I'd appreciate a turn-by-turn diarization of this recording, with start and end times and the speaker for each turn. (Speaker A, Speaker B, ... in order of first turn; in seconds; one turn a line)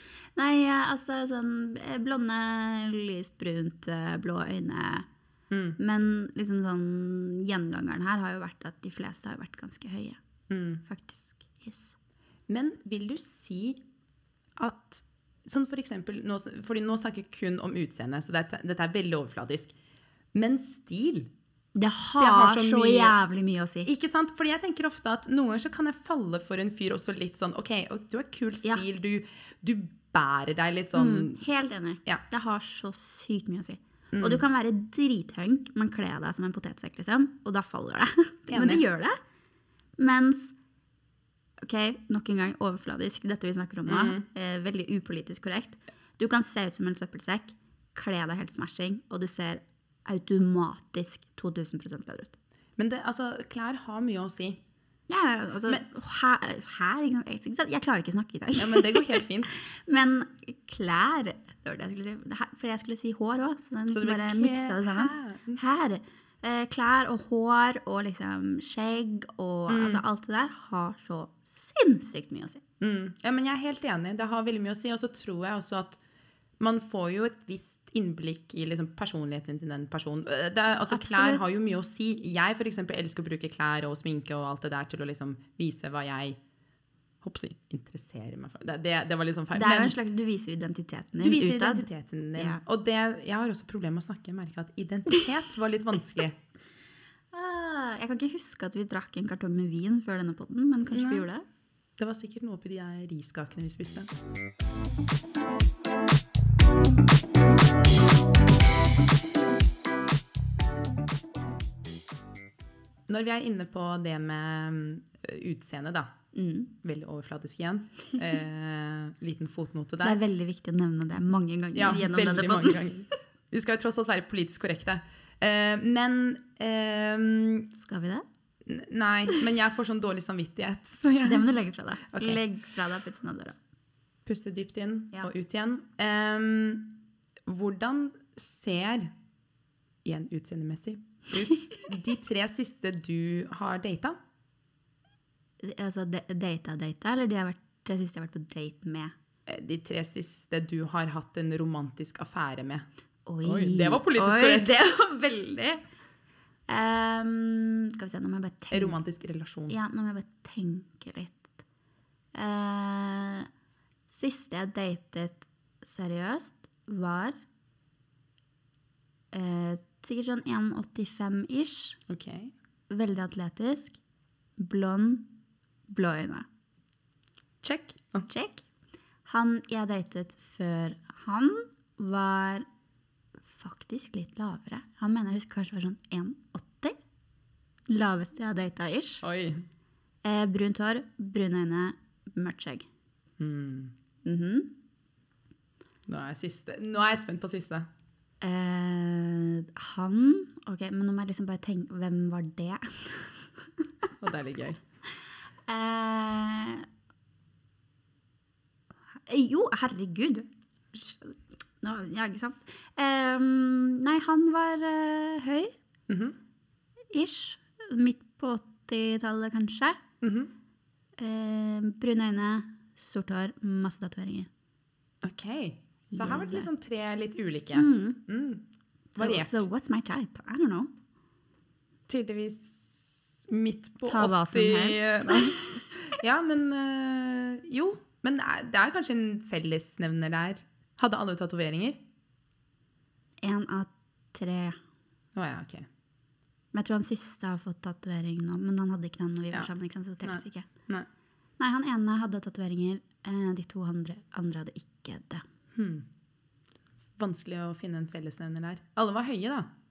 Speaker A: 0.3-5.0
Speaker B: 5.5-5.8
Speaker A: 5.8-10.2
Speaker B: 10.5-10.8
Speaker A: 10.8-11.9
Speaker B: 12.5-13.8
Speaker B: 14.6-19.7
Speaker B: 20.3-21.3
Speaker A: 21.7-23.9
Speaker B: 22.2-23.1
Speaker B: 23.9-31.4
Speaker A: 30.9-39.2
Speaker B: 34.1-34.4
Speaker B: 38.5-38.8
Speaker A: 40.0-40.5
Speaker A: 41.6-52.3
Speaker B: 43.9-44.2
Speaker B: 52.8-54.6
Speaker A: 55.1-72.6
Speaker B: 58.6-59.6
Speaker B: 63.9-65.6
Speaker B: 69.7-70.0
Speaker B: 72.8-76.0
Speaker B: 76.6-86.4
Speaker A: 80.9-81.5
Speaker B: 87.2-90.0
Speaker A: 89.5-92.6
Speaker B: 91.2-96.3
Speaker A: 97.3-101.4
Speaker B: 100.9-101.2
Speaker B: 102.0-104.1
Speaker B: 113.1-116.1
Speaker A: 116.3-116.7
Speaker B: 116.8-120.2
Speaker A: 120.0-122.8
Speaker B: 121.7-127.7
Speaker A: 127.8-128.2
Speaker B: 128.6-131.5
Speaker A: 131.2-133.6
Speaker B: 132.1-132.4
Speaker B: 134.2-136.9
Speaker B: 137.4-139.1
Speaker B: 140.0-144.2
Speaker A: 141.4-141.8
Speaker A: 145.6-149.1
Speaker B: 149.5-152.8
Speaker A: 153.2-155.8
Speaker B: 153.4-154.7
Speaker A: 156.7-159.0
Speaker B: 158.7-159.7
Speaker A: 159.7-161.5
Speaker A: 162.3-163.5
Speaker A: 164.1-167.4
Speaker A: 169.3-172.0
Speaker B: 172.1-172.5
Speaker A: 172.9-174.0
Speaker A: 174.6-175.3
Speaker A: 175.9-176.4
Speaker B: 177.6-178.3
Speaker A: 178.3-178.6
Speaker A: 179.2-182.7
Speaker A: 183.5-186.9
Speaker A: 187.9-189.2
Speaker B: 189.2-189.6
Speaker A: 190.2-192.8
Speaker B: 193.4-193.9
Speaker A: 194.2-194.7
Speaker B: 196.1-197.9
Speaker A: 198.4-204.1
Speaker B: 204.2-204.8
Speaker A: 205.7-206.9
Speaker A: 209.2-215.7
Speaker B: 216.1-216.3
Speaker A: 217.1-220.0
Speaker B: 220.2-220.5
Speaker A: 221.2-224.5
Speaker B: 225.2-228.6
Speaker A: 226.1-226.7
Speaker A: 227.7-228.2
Speaker B: 229.2-229.7
Speaker A: 229.2-230.9
Speaker B: 232.1-242.0
Speaker A: 234.0-235.8
Speaker A: 243.4-244.8
Speaker B: 245.3-245.9
Speaker A: 246.7-250.7
Speaker B: 250.2-251.1
Speaker A: 251.6-255.4
Speaker B: 255.7-256.1
Speaker B: 257.2-259.7